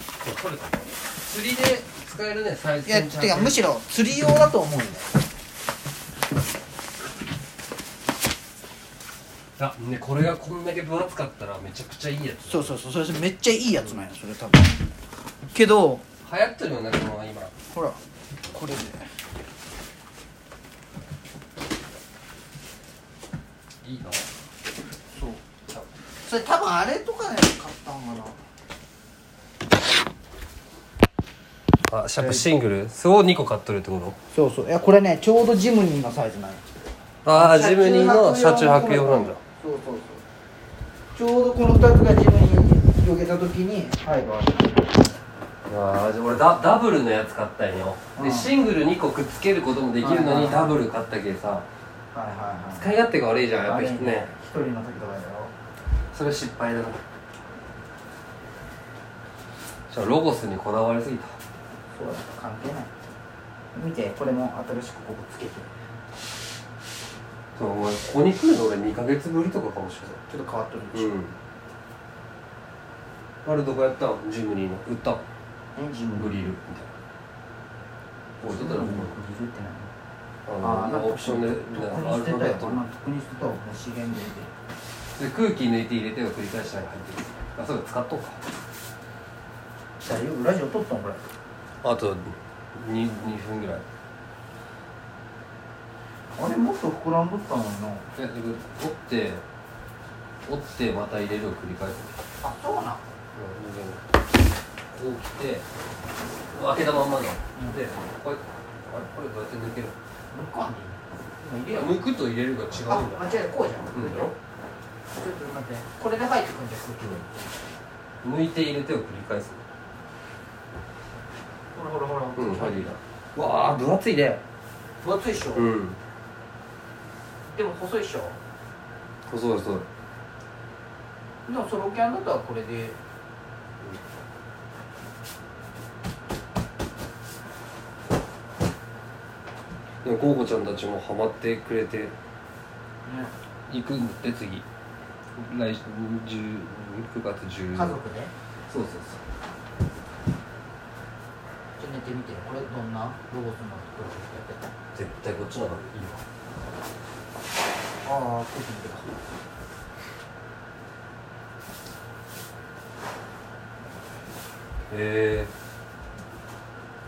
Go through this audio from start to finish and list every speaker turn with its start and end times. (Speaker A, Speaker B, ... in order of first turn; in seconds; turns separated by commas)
Speaker A: 0.2-3.6, Speaker B: 2.8-5.1, Speaker A: 9.6-12.7, Speaker B: 12.5-14.8, Speaker B: 15.5-16.0, Speaker A: 16.2-17.5, Speaker B: 17.7-18.0, Speaker B: 18.5-19.1, Speaker A: 23.8-24.2, Speaker B: 25.1-25.4, Speaker B: 26.2-28.4, Speaker A: 31.9-34.2, Speaker B: 32.2-32.5, Speaker B: 34.3-36.6, Speaker A: 37.2-39.4, Speaker B: 37.3-40.2, Speaker B: 41.1-44.9, Speaker A: 45.7-51.6, Speaker B: 48.2-48.5, Speaker B: 50.0-50.8, Speaker B: 52.1-52.9, Speaker A: 52.7-54.3, Speaker B: 53.6-55.5, Speaker A: 56.1-57.0, Speaker A: 59.9-61.4, Speaker B: 61.9-62.9, Speaker B: 63.7-65.7, Speaker A: 67.5-70.2, Speaker B: 70.3-71.1, Speaker A: 70.9-71.3, Speaker A: 73.4-75.2, Speaker B: 75.8-76.3, Speaker A: 76.1-76.9, Speaker A: 78.4-79.2, Speaker B: 78.5-79.9, Speaker A: 80.5-82.8, Speaker B: 80.6-84.5, Speaker A: 85.2-88.4, Speaker B: 90.0-91.2, Speaker A: 91.8-93.8, Speaker B: 96.3-98.1, Speaker A: 98.1-99.4, Speaker A: 100.5-102.1, Speaker B: 102.4-103.0, Speaker A: 103.3-104.0, Speaker A: 104.9-105.6, Speaker A: 106.5-110.0, Speaker B: 110.3-112.0, Speaker A: 111.6-113.4, Speaker B: 112.7-114.3, Speaker A: 113.9-114.3, Speaker B: 115.1-117.5, Speaker A: 118.2-119.6, Speaker B: 121.7-123.0, Speaker A: 122.4-124.4, Speaker B: 125.0-125.7, Speaker A: 125.5-126.0, Speaker B: 127.5-128.4, Speaker A: 129.3-129.9, Speaker B: 131.4-133.0, Speaker A: 140.0-142.1, Speaker B: 143.0-143.3, Speaker A: 143.7-144.7, Speaker A: 145.3-148.0, Speaker B: 147.7-148.3, Speaker A: 148.7-149.2, Speaker B: 151.8-154.7, Speaker A: 154.9-156.2, Speaker B: 158.0-159.1, Speaker A: 164.9-165.5